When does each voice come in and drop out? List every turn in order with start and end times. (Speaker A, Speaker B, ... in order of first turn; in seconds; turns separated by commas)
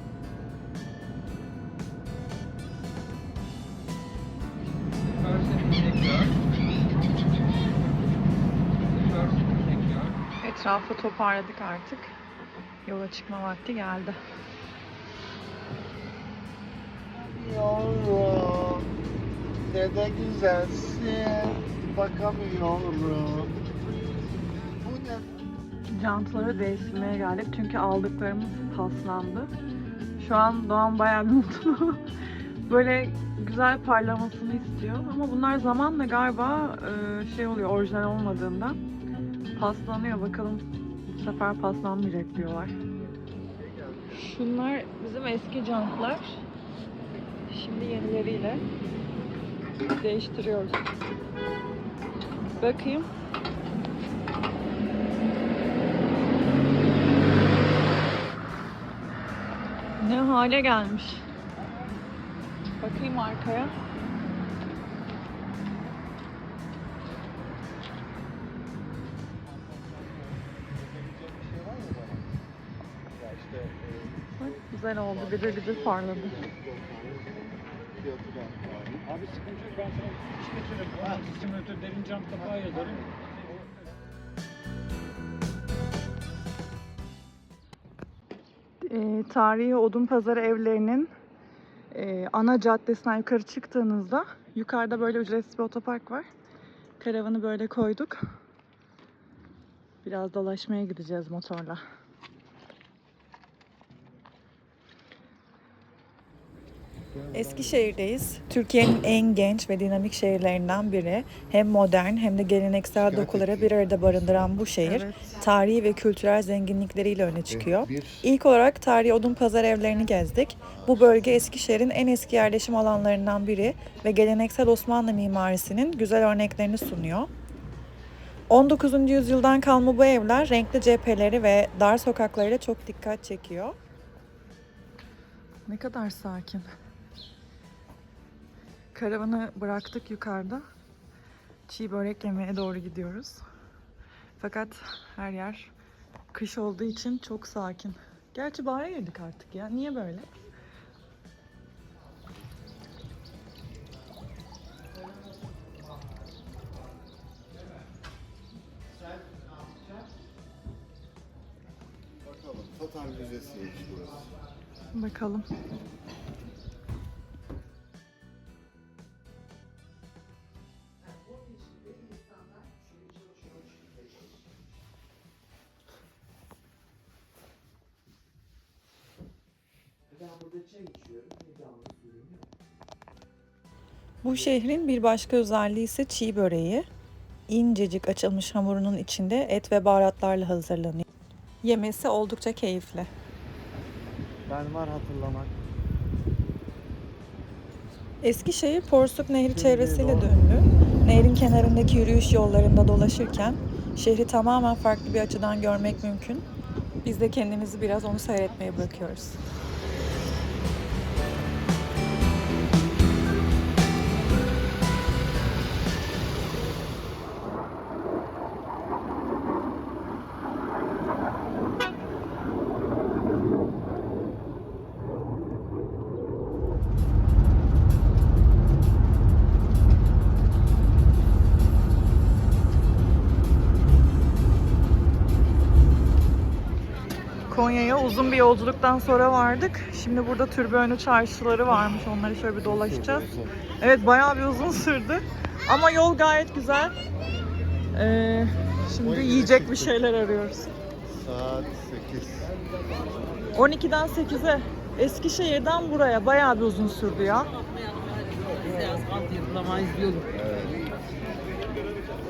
Speaker A: 5.1-6.4, Speaker A: 8.8-10.2, Speaker B: 10.4-12.1, Speaker B: 12.8-14.2, Speaker C: 17.1-18.9, Speaker C: 19.7-23.5, Speaker C: 24.8-25.3, Speaker B: 25.9-29.5, Speaker B: 30.2-32.0, Speaker B: 32.7-38.8, Speaker B: 39.6-42.8, Speaker C: 43.7-44.0, Speaker B: 44.1-46.4, Speaker B: 47.5-48.6, Speaker B: 50.0-50.9, Speaker B: 52.6-53.1, Speaker B: 60.0-61.2, Speaker B: 62.8-63.8, Speaker C: 69.7-70.2, Speaker C: 70.8-72.3, Speaker C: 73.2-74.6, Speaker B: 74.4-76.4, Speaker C: 75.1-79.3, Speaker A: 79.4-82.4, Speaker C: 81.0-81.4, Speaker C: 82.2-83.3, Speaker B: 88.8-91.1, Speaker B: 91.9-96.3, Speaker B: 97.0-98.2, Speaker B: 100.0-101.8, Speaker C: 107.1-108.0, Speaker B: 107.3-127.3, Speaker C: 113.0-114.0, Speaker C: 117.5-118.3, Speaker B: 128.5-133.8, Speaker B: 135.7-136.7, Speaker B: 138.9-140.7, Speaker B: 141.7-143.4, Speaker B: 144.4-145.7, Speaker B: 146.3-150.3, Speaker C: 162.2-164.3, Speaker B: 164.9-165.5, Speaker A: 180.3-182.3, Speaker B: 184.2-186.9, Speaker B: 187.5-191.1, Speaker B: 191.6-193.1, Speaker C: 194.5-195.5, Speaker B: 198.2-206.4, Speaker C: 199.5-200.3, Speaker B: 207.0-209.4, Speaker B: 237.5-246.9, Speaker C: 242.6-243.7, Speaker B: 247.9-250.7, Speaker C: 249.0-250.0, Speaker C: 251.1-252.6, Speaker B: 253.5-257.5, Speaker A: 259.1-260.2, Speaker C: 260.1-260.9